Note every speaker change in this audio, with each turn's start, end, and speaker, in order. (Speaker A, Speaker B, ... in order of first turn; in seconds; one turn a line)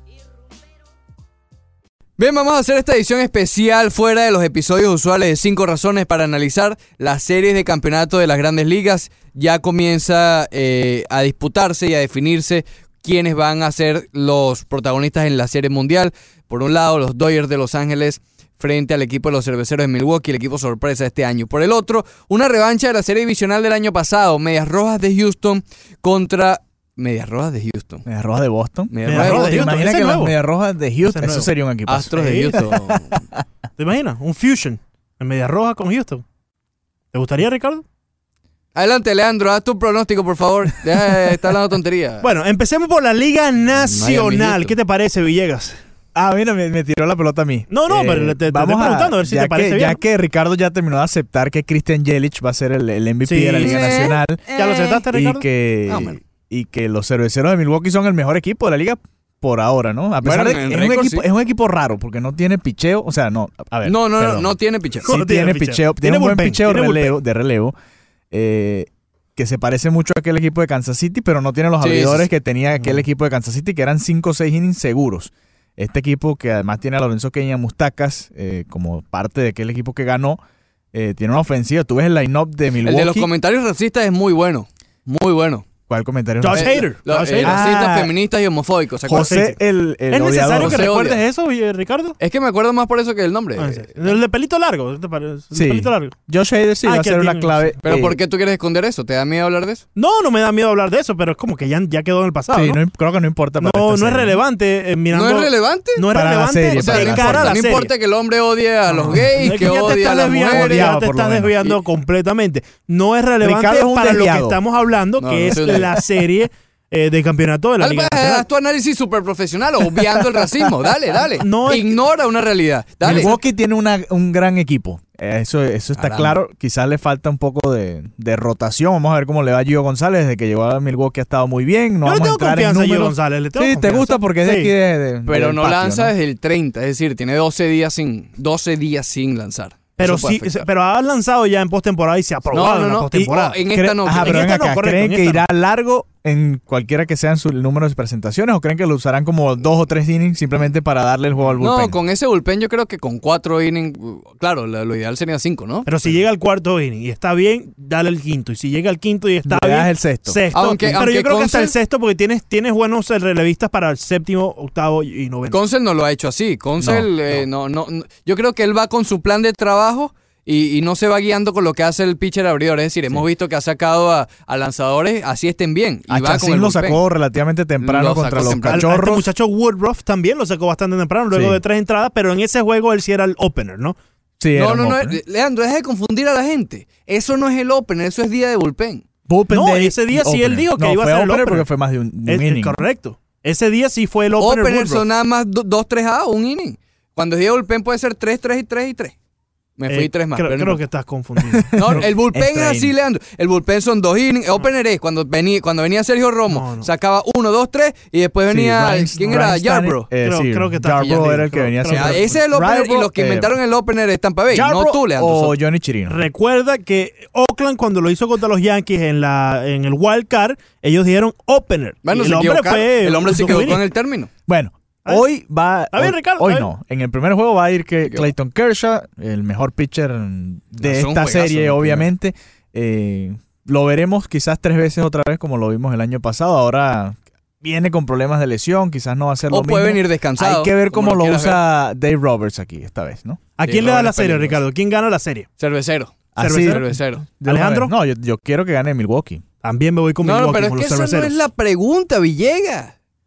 Speaker A: 2.2-28.0
Speaker B: 28.1-33.2
Speaker A: 28.9-29.7
Speaker C: 29.1-30.4
Speaker C: 31.1-31.5
Speaker A: 31.9-33.2
Speaker C: 32.1-32.6
Speaker C: 33.8-36.2
Speaker C: 37.1-37.8
Speaker A: 38.7-42.3
Speaker C: 42.2-45.8
Speaker A: 43.7-44.7
Speaker B: 46.1-67.8
Speaker C: 47.7-50.0
Speaker C: 53.2-55.5
Speaker A: 53.6-55.0
Speaker A: 55.9-56.2
Speaker A: 60.2-61.3
Speaker A: 63.9-65.1
Speaker C: 65.0-67.2
Speaker B: 68.3-80.4
Speaker A: 71.8-72.3
Speaker B: 80.9-83.3
Speaker A: 82.8-85.7
Speaker B: 85.9-86.8
Speaker C: 86.4-87.6
Speaker A: 86.5-89.3
Speaker B: 87.4-88.1
Speaker B: 89.0-90.9
Speaker C: 89.1-89.6
Speaker C: 90.1-92.2
Speaker A: 90.6-91.2
Speaker A: 92.2-94.2
Speaker C: 93.6-96.1
Speaker B: 95.5-98.2
Speaker C: 96.8-97.8
Speaker A: 97.8-99.8
Speaker C: 99.9-102.8
Speaker B: 102.5-104.4
Speaker C: 103.6-107.9
Speaker A: 105.1-106.1
Speaker B: 106.1-107.6
Speaker A: 106.7-110.9
Speaker C: 108.9-118.5
Speaker B: 110.4-111.5
Speaker B: 113.4-114.6
Speaker A: 115.2-116.0
Speaker A: 117.8-123.3
Speaker B: 120.1-120.4
Speaker C: 121.4-122.0
Speaker B: 123.0-136.1
Speaker C: 123.1-123.3
Speaker A: 125.9-126.4
Speaker C: 132.0-134.7
Speaker A: 135.2-140.7
Speaker C: 140.0-143.6
Speaker A: 142.5-144.5
Speaker B: 143.7-152.0
Speaker C: 144.2-145.4
Speaker A: 151.6-155.9
Speaker C: 155.8-165.6
Speaker B: 159.4-161.1
Speaker A: 160.5-161.8
Speaker A: 165.5-177.0
Speaker B: 166.8-167.1
Speaker B: 176.1-179.3
Speaker A: 177.8-178.9
Speaker C: 178.6-183.9
Speaker B: 181.3-181.6
Speaker B: 184.4-185.2
Speaker A: 184.5-189.0
Speaker B: 189.3-192.8
Speaker C: 189.5-191.7
Speaker C: 192.2-195.1
Speaker A: 194.3-199.1
Speaker A: 199.8-200.8
Speaker C: 199.9-202.0
Speaker B: 201.6-202.9
Speaker A: 201.8-210.1
Speaker C: 206.5-206.9
Speaker B: 208.5-213.5
Speaker C: 210.2-212.3
Speaker A: 211.9-215.6
Speaker B: 214.5-216.2
Speaker C: 216.1-223.8
Speaker A: 222.0-224.3
Speaker B: 224.5-243.4
Speaker C: 225.9-226.7
Speaker A: 228.0-228.3
Speaker A: 230.8-232.1
Speaker A: 239.5-241.6
Speaker C: 243.6-245.5
Speaker A: 243.6-244.6
Speaker A: 245.6-247.2
Speaker B: 246.3-249.4
Speaker C: 246.4-246.9
Speaker C: 247.4-247.9
Speaker C: 249.6-251.4
Speaker A: 250.2-252.9